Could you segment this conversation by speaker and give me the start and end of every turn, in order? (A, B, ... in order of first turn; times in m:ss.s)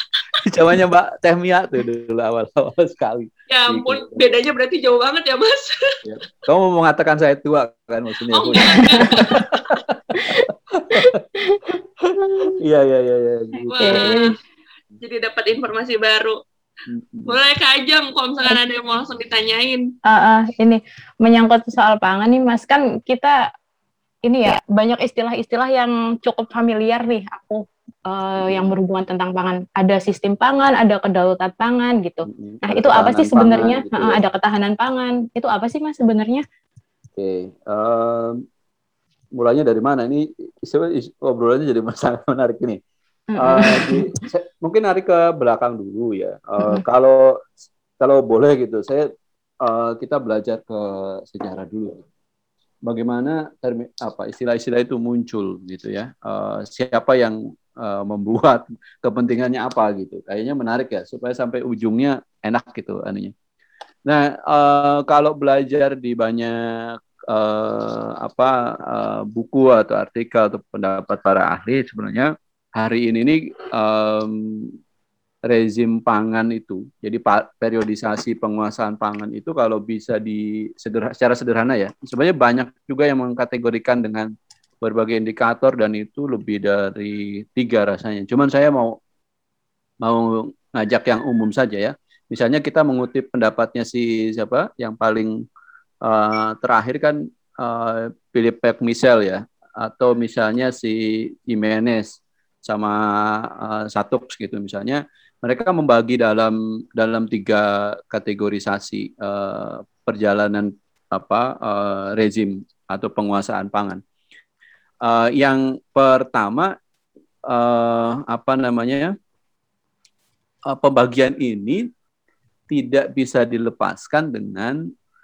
0:00.4-0:04.2 A
0:03.5-0:06.0 B
0:06.0-0:11.2 A
0:08.3-0:09.5 B
0:08.6-0:09.4 C
0:10.2-0:12.6 C
0:12.0-0:14.2 A
0:13.7-0:14.3 B
0:13.8-0:14.3 C
0:15.0-0:16.4 B
0:16.9-0:17.4 A
0:17.2-0:19.9 B
0:20.0-0:23.5 C
0:24.2-0:36.4 C
0:32.2-0:34.2 A
0:37.2-0:38.4 A
0:39.4-0:42.8 A
0:43.3-0:44.2 C
0:43.4-0:47.5 A
0:48.0-0:49.1 A
0:49.6-0:52.0 A
0:52.8-1:03.3 A
1:04.0-1:14.7 A
1:15.5-1:29.0 A
1:30.0-1:35.3 A
1:36.0-1:54.0 A
1:55.0-1:56.7 A
1:57.5-1:59.1 A
2:00.7-2:01.8 A
2:02.7-2:04.8 A